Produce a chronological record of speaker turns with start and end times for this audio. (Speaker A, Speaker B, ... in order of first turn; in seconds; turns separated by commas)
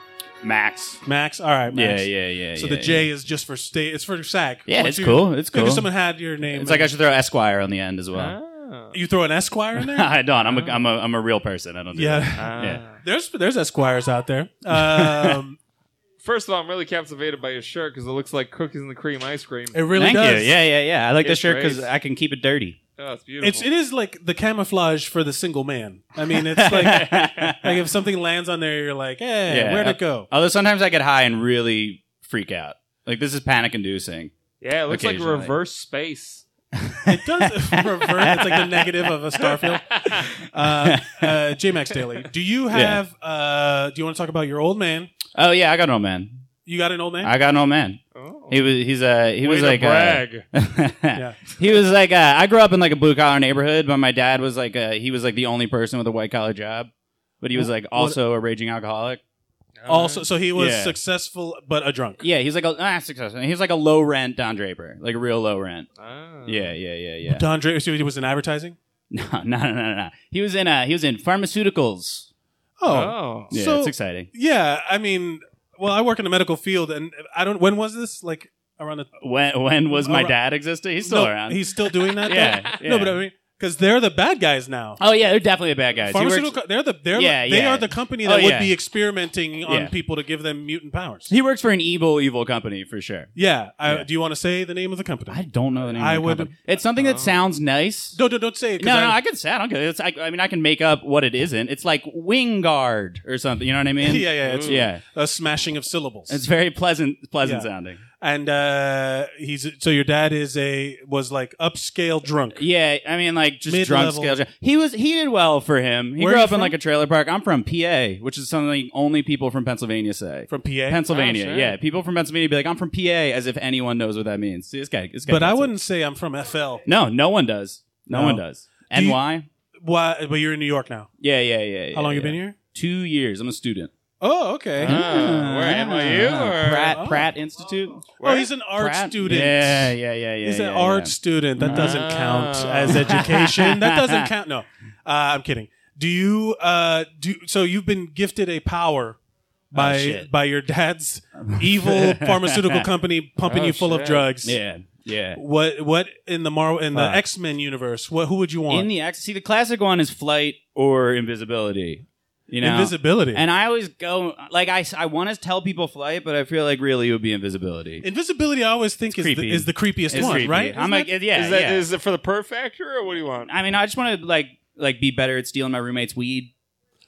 Speaker A: 0.4-1.0, Speaker B: 1.1-6.9, Speaker A: 1.7-3.1, Speaker A: 4.7-5.9, Speaker A: 6.5-8.3, Speaker C: 8.1-9.0, Speaker B: 8.9-10.1, Speaker A: 9.8-13.0, Speaker C: 10.4-10.8, Speaker B: 11.9-15.6, Speaker C: 12.3-13.0, Speaker A: 14.7-15.4, Speaker C: 16.2-19.9, Speaker B: 19.7-20.6, Speaker A: 19.9-22.8, Speaker C: 21.2-21.9, Speaker C: 23.0-23.7, Speaker B: 23.4-30.3, Speaker A: 26.4-27.8, Speaker A: 29.5-34.3, Speaker C: 34.6-36.4, Speaker A: 34.9-35.5, Speaker A: 36.8-38.8, Speaker B: 37.1-45.1, Speaker C: 39.7-40.3, Speaker A: 40.4-41.4, Speaker A: 42.7-43.0, Speaker A: 45.4-46.4, Speaker B: 46.7-47.3, Speaker A: 47.2-56.9, Speaker C: 48.1-48.6, Speaker C: 49.4-50.5, Speaker B: 51.1-51.4, Speaker A: 57.4-59.2, Speaker B: 57.5-58.2, Speaker C: 59.8-60.3, Speaker B: 59.9-62.2, Speaker A: 60.5-61.0, Speaker A: 62.2-65.9, Speaker C: 66.0-66.7, Speaker A: 66.5-67.5, Speaker B: 67.3-68.8, Speaker A: 69.1-72.3, Speaker B: 72.8-79.1, Speaker C: 72.9-73.5, Speaker A: 73.5-74.3, Speaker A: 79.2-81.6, Speaker B: 79.9-80.4, Speaker B: 81.0-85.0, Speaker C: 82.2-82.6, Speaker A: 82.2-83.2, Speaker A: 85.0-86.6, Speaker B: 86.0-91.3, Speaker A: 87.1-88.8, Speaker A: 89.6-89.9, Speaker A: 91.3-93.3, Speaker B: 93.3-96.5, Speaker A: 95.3-98.2, Speaker C: 97.0-97.4, Speaker B: 98.1-99.2, Speaker A: 98.8-105.0, Speaker B: 104.0-106.4, Speaker C: 104.4-104.8, Speaker A: 106.3-108.0, Speaker B: 107.4-112.7, Speaker A: 112.5-125.8, Speaker B: 113.6-114.4, Speaker B: 116.2-116.7, Speaker B: 120.5-121.1, Speaker C: 121.1-121.8, Speaker B: 125.3-126.9, Speaker A: 126.9-129.4, Speaker B: 128.1-129.2, Speaker B: 129.8-131.1, Speaker A: 131.2-133.9, Speaker B: 131.9-132.6, Speaker B: 134.2-135.0, Speaker A: 134.8-138.2, Speaker C: 134.8-137.0, Speaker B: 136.9-137.3, Speaker B: 138.2-149.2, Speaker C: 138.2-138.5, Speaker A: 138.7-142.0, Speaker C: 141.6-143.3, Speaker A: 142.9-144.3, Speaker B: 149.7-154.6, Speaker A: 149.7-150.3, Speaker A: 151.4-152.9, Speaker C: 153.4-154.3, Speaker A: 154.4-155.4, Speaker B: 155.4-158.9, Speaker A: 156.9-157.2, Speaker A: 158.7-168.1, Speaker B: 162.6-163.4, Speaker B: 168.0-171.1, Speaker A: 169.1-171.9, Speaker C: 171.3-173.5, Speaker A: 173.5-176.5